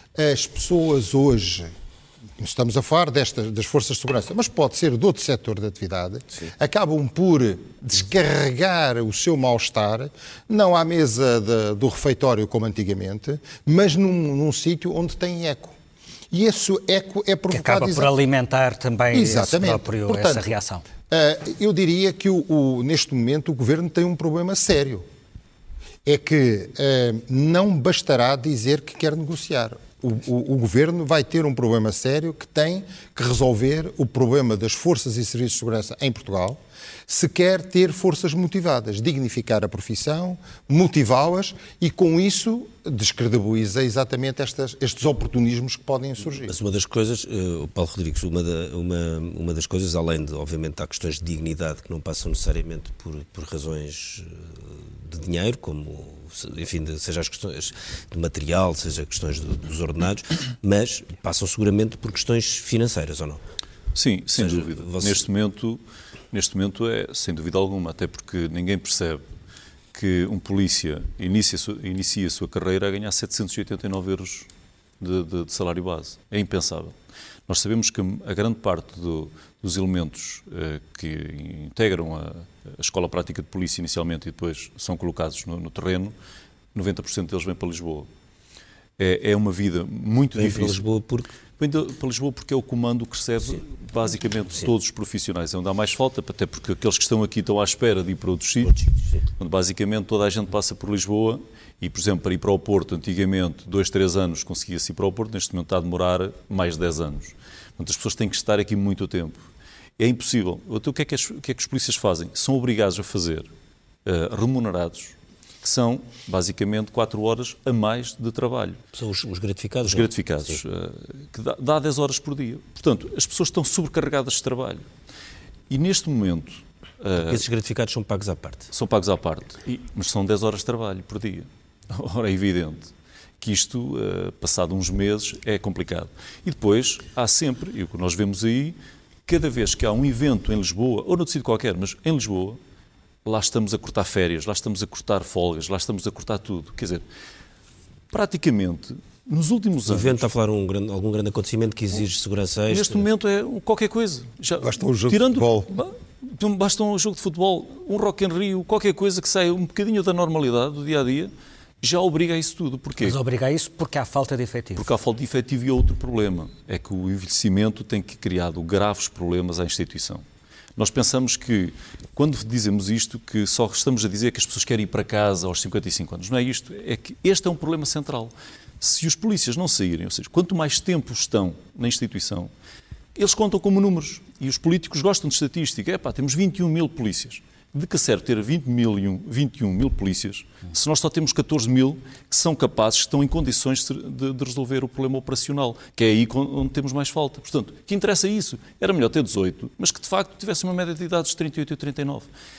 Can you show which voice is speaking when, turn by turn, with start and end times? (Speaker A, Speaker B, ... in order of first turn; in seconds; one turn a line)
Speaker A: 0.1-1.7
Speaker A: 2.4-15.8
Speaker A: 16.3-18.1
Speaker B: 17.5-20.9
Speaker A: 19.1-20.4
Speaker A: 21.1-25.1
Speaker A: 26.1-46.5
Speaker C: 46.4-63.4
Speaker D: 63.9-69.2
Speaker C: 64.3-65.2
Speaker D: 69.9-74.5
Speaker D: 75.0-77.0
Speaker D: 77.5-86.1
Speaker D: 86.7-88.1
Speaker D: 89.0-90.8
Speaker C: 90.4-91.3
Speaker D: 91.6-109.4
Speaker C: 98.6-99.2
Speaker D: 110.0-113.5
Speaker D: 114.0-118.8
Speaker C: 118.9-120.6
Speaker D: 119.9-124.9
Speaker D: 125.7-127.4
Speaker C: 127.3-128.7
Speaker D: 128.7-138.8
Speaker D: 139.3-142.6
Speaker D: 143.2-147.0
Speaker D: 148.1-150.3
Speaker C: 149.9-153.0
Speaker D: 152.7-163.2
Speaker A: 154.6-155.7
Speaker B: 163.0-164.9
Speaker D: 164.8-170.2
Speaker D: 170.8-182.5
Speaker D: 183.1-202.3